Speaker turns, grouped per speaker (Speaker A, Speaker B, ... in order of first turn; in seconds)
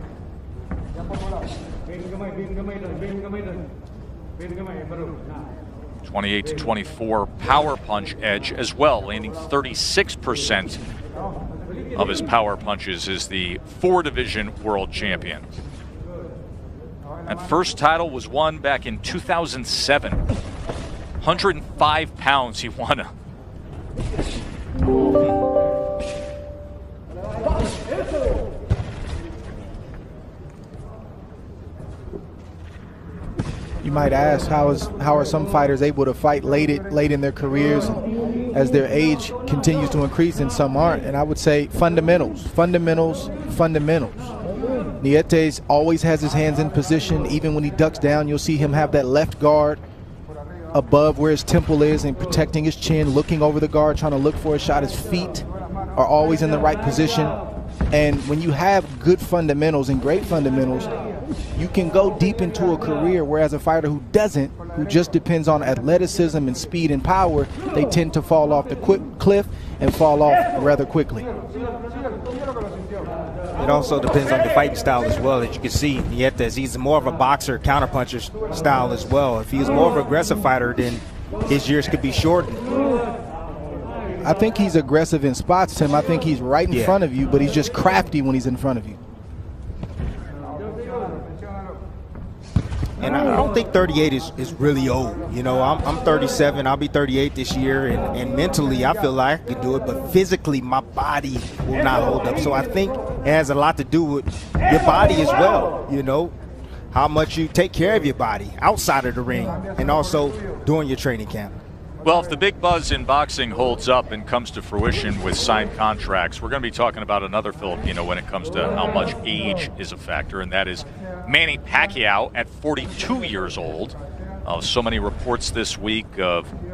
Speaker A: 6.0-10.8, 11.9-15.4, 17.3-20.2, 21.2-23.1, 112.0-126.5
Speaker B: 33.8-44.3, 45.0-49.8, 50.7-57.4, 57.9-60.9, 61.5-71.3, 84.2-89.0
Speaker C: 73.6-82.6, 86.7-87.0, 93.0-106.3, 106.9-111.5